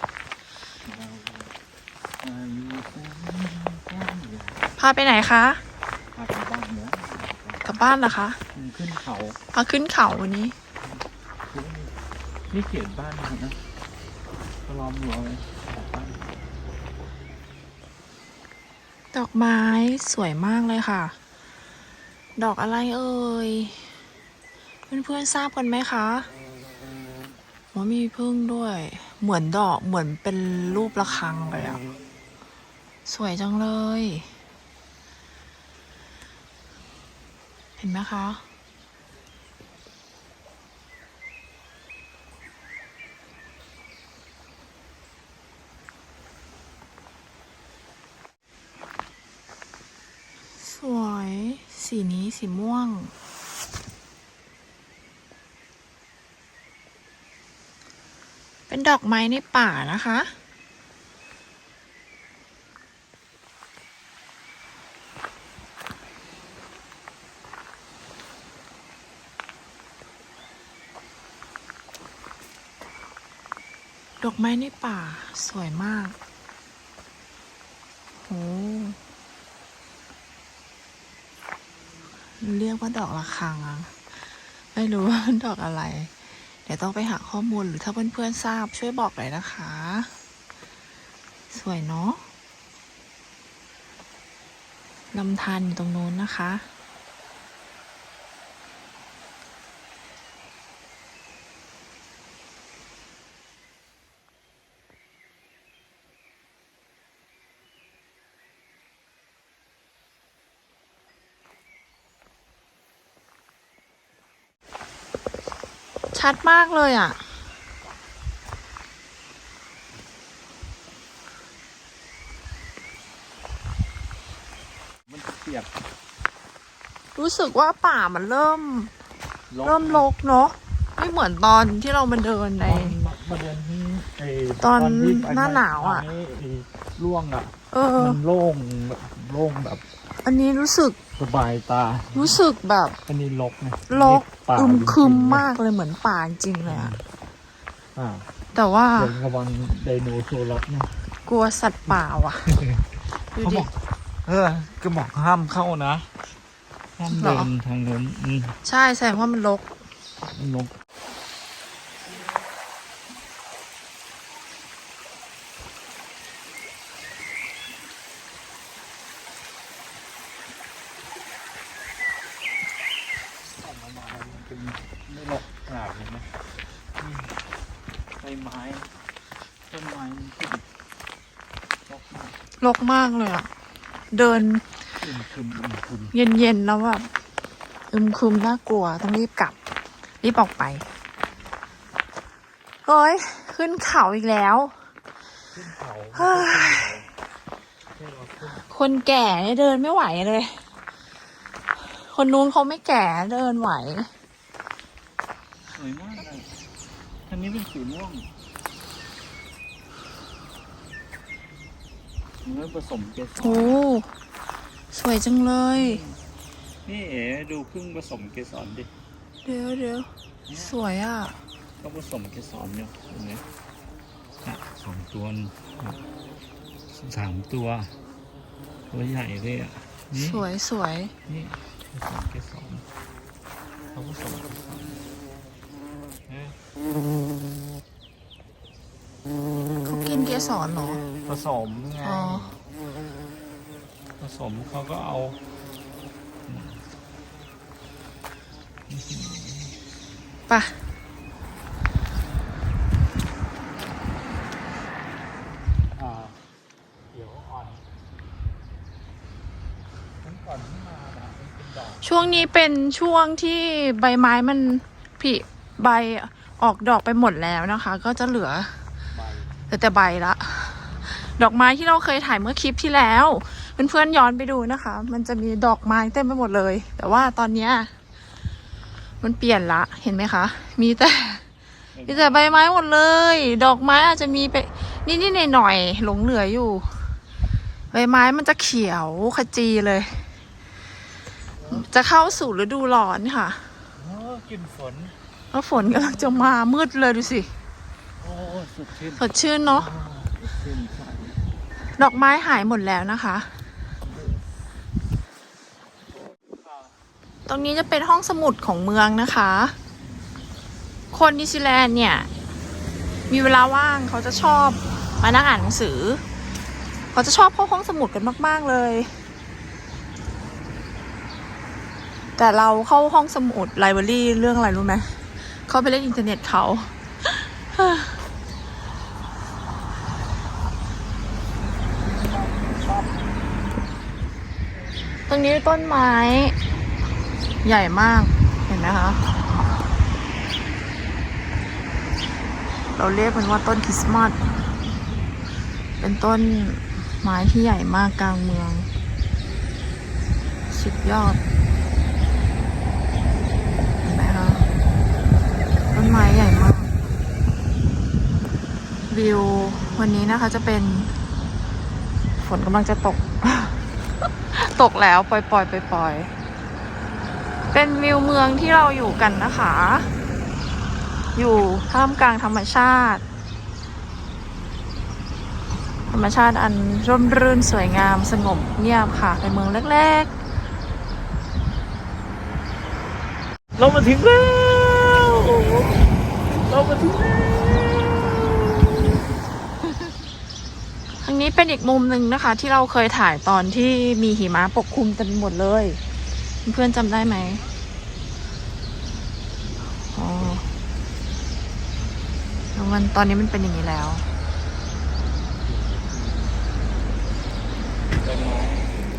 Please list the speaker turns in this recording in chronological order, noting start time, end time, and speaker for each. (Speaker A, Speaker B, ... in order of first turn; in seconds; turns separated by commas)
Speaker A: 0.8-1.5, Speaker A: 2.2-4.6, Speaker B: 4.8-5.6, Speaker A: 6.1-7.6, Speaker B: 7.6-8.4, Speaker A: 8.5-9.4, Speaker B: 9.5-10.6, Speaker A: 10.8-11.9, Speaker A: 12.5-13.6, Speaker A: 14.6-16.2, Speaker B: 19.1-21.1, Speaker B: 22.4-23.9, Speaker B: 24.9-26.3, Speaker B: 27.7-31.8, Speaker B: 33.0-34.3, Speaker B: 37.8-38.4, Speaker B: 50.6-53.1, Speaker B: 58.7-60.3, Speaker B: 74.2-76.2, Speaker B: 78.2-79.0, Speaker B: 82.4-83.9, Speaker B: 84.7-86.1, Speaker B: 86.7-90.1, Speaker B: 91.5-92.2, Speaker B: 95.1-96.7, Speaker B: 116.1-117.2, Speaker A: 125.1-125.7, Speaker B: 127.1-128.9, Speaker A: 129.5-130.1, Speaker B: 129.6-132.9, Speaker A: 132.6-139.8, Speaker B: 134.6-136.1, Speaker B: 137.7-138.2, Speaker B: 140.2-141.0, Speaker A: 141.2-142.4, Speaker B: 142.1-143.0, Speaker A: 143.1-145.5, Speaker B: 143.9-146.9, Speaker A: 146.6-147.0, Speaker A: 147.9-148.3, Speaker B: 148.5-149.1, Speaker A: 149.0-150.9, Speaker B: 151.2-152.6, Speaker A: 152.5-152.8, Speaker B: 153.3-153.7, Speaker A: 153.4-153.7, Speaker A: 154.2-156.1, Speaker A: 157.0-158.6, Speaker B: 157.1-157.5, Speaker B: 158.6-159.7, Speaker A: 160.2-160.7, Speaker A: 173.5-176.3, Speaker A: 177.0-177.3, Speaker A: 178.2-178.9, Speaker A: 179.7-180.6, Speaker A: 181.9-182.3, Speaker B: 182.6-183.5, Speaker B: 184.1-184.6, Speaker A: 185.0-186.1, Speaker B: 186.1-187.1, Speaker B: 187.9-189.6, Speaker B: 190.2-190.9, Speaker B: 192.8-194.7, Speaker A: 195.5-197.1, Speaker B: 196.1-196.8, Speaker A: 197.9-198.6, Speaker B: 198.7-200.6, Speaker B: 201.8-204.1, Speaker A: 205.7-206.5, Speaker A: 207.3-208.3, Speaker A: 212.4-213.8, Speaker B: 213.4-214.1, Speaker B: 214.9-216.0, Speaker A: 215.7-216.2, Speaker A: 216.8-218.9, Speaker B: 219.4-221.4, Speaker A: 220.5-220.7, Speaker A: 221.8-223.4, Speaker A: 224.4-226.0, Speaker A: 226.9-227.9, Speaker A: 228.9-230.4, Speaker B: 230.1-231.1, Speaker A: 231.2-232.9, Speaker A: 233.9-235.0, Speaker A: 236.3-236.6, Speaker B: 239.8-241.0, Speaker A: 241.2-242.5, Speaker B: 242.0-242.6, Speaker A: 244.2-245.4, Speaker A: 246.4-246.8, Speaker A: 248.9-249.8, Speaker B: 250.5-250.8, Speaker A: 255.9-256.4, Speaker A: 257.1-257.8, Speaker A: 260.2-262.5, Speaker B: 262.0-268.8, Speaker A: 269.1-269.5, Speaker B: 269.7-277.9, Speaker B: 279.2-281.4, Speaker A: 281.9-282.6, Speaker B: 282.1-287.0, Speaker B: 287.9-290.2, Speaker A: 291.6-291.9, Speaker B: 291.7-293.7, Speaker A: 294.0-295.1, Speaker B: 295.5-297.5, Speaker A: 295.8-296.4, Speaker A: 298.2-301.4, Speaker B: 299.2-299.9, Speaker B: 302.0-303.6, Speaker A: 304.1-304.4, Speaker B: 307.5-309.8, Speaker B: 311.1-312.3, Speaker B: 313.3-316.2, Speaker B: 317.1-319.2, Speaker B: 322.4-325.1, Speaker B: 325.6-328.2, Speaker A: 332.0-333.3, Speaker B: 335.3-336.6, Speaker B: 337.6-339.2, Speaker B: 342.9-344.4, Speaker B: 346.0-348.9, Speaker B: 350.7-351.4, Speaker B: 354.0-354.6, Speaker B: 355.9-356.9, Speaker B: 359.1-361.1, Speaker B: 362.4-363.8, Speaker B: 364.5-366.3, Speaker B: 367.7-370.1, Speaker B: 371.3-373.2, Speaker B: 376.1-380.3, Speaker A: 383.8-389.2, Speaker B: 391.2-396.0, Speaker B: 396.6-397.6, Speaker B: 400.1-400.6, Speaker B: 402.7-404.2, Speaker A: 405.6-406.6, Speaker A: 408.2-409.0